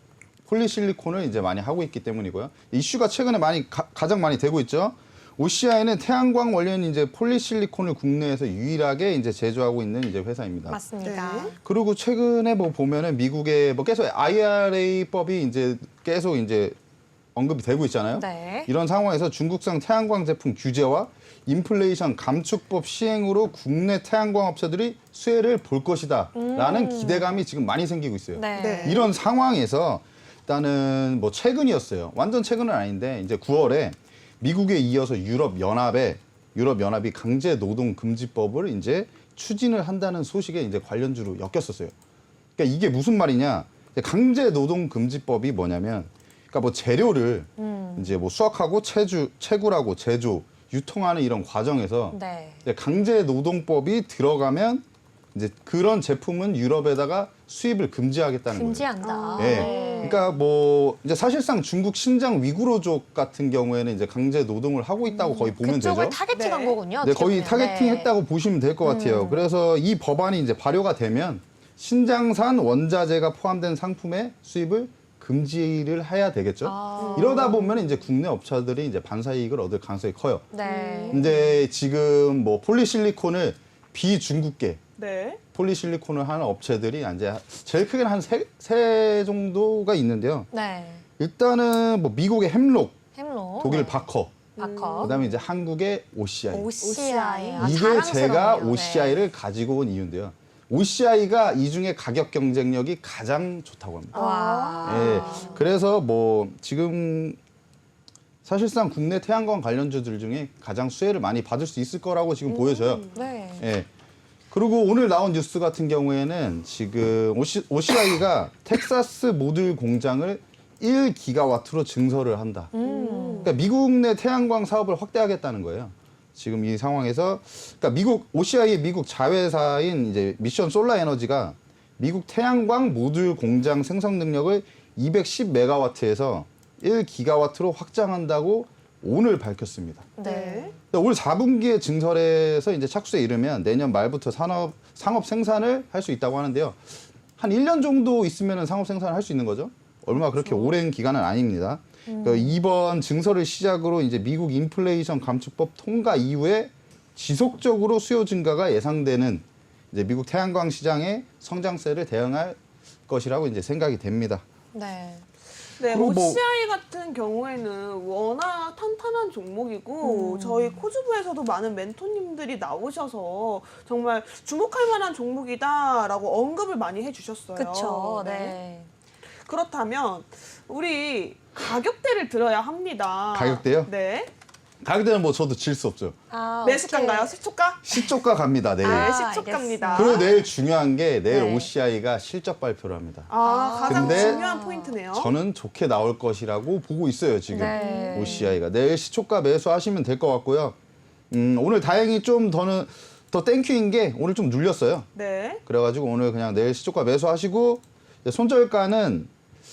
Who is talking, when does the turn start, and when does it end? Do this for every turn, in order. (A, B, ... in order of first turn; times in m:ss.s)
0:00.5-0:10.8 A
0:10.7-0:11.6 B
0:11.0-0:11.5 C
0:11.6-0:16.8 A
0:17.3-0:41.9 A
0:18.1-0:18.7 B
0:26.3-0:27.4 B
0:28.3-0:29.0 B
0:28.6-0:29.0 C
0:42.6-1:06.2 A
0:47.6-0:48.2 B
0:52.1-0:52.6 B
0:58.5-1:00.3 B
0:59.0-1:00.2 C
1:05.0-1:08.1 B
1:06.3-1:06.8 C
1:07.0-1:20.5 A
1:08.8-1:09.5 B
1:16.6-1:17.7 B
1:17.0-1:17.4 C
1:20.5-1:21.4 B
1:20.6-1:21.4 C
1:21.1-1:24.8 A
1:25.0-1:25.4 C
1:25.5-1:30.5 A
1:30.5-1:31.0 B
1:31.2-1:33.0 A
1:33.1-1:34.1 B
1:33.6-1:34.4 A
1:34.6-1:35.2 C
1:34.6-1:35.2 B
1:35.0-1:36.7 A
1:36.5-1:39.2 B
1:36.8-1:37.8 C
1:37.6-1:44.2 A
1:44.1-1:45.6 C
1:44.1-1:45.6 B
1:44.8-1:47.4 A
1:48.4-1:53.9 A
1:52.4-1:53.2 C
1:53.1-1:53.7 B
1:54.5-2:02.7 A
2:02.7-2:03.5 B
2:02.8-2:03.5 C
2:03.4-2:20.1 A
2:20.2-2:20.8 B
2:20.2-2:20.7 C
2:20.9-2:44.4 A
2:30.2-2:30.8 C
2:32.1-2:32.6 B
2:44.7-2:45.2 B
2:45.8-2:58.6 C
2:45.9-2:46.4 A
2:50.0-2:50.8 B
2:57.6-2:58.9 B
2:59.3-3:04.3 C
3:03.3-3:03.9 A
3:04.8-3:06.1 A
3:06.3-3:07.3 B
3:06.6-3:07.8 C
3:07.8-3:09.2 A
3:07.9-3:08.2 B
3:08.8-3:10.2 B
3:08.8-3:10.4 C
3:09.9-3:13.3 A
3:11.3-3:11.7 B
3:13.3-3:15.3 C
3:13.4-3:14.9 B
3:13.8-3:14.4 A
3:15.1-3:20.8 A
3:17.5-3:18.6 B
3:17.8-3:18.4 C
3:21.3-3:25.1 A
3:25.1-3:25.6 C
3:25.6-3:29.3 A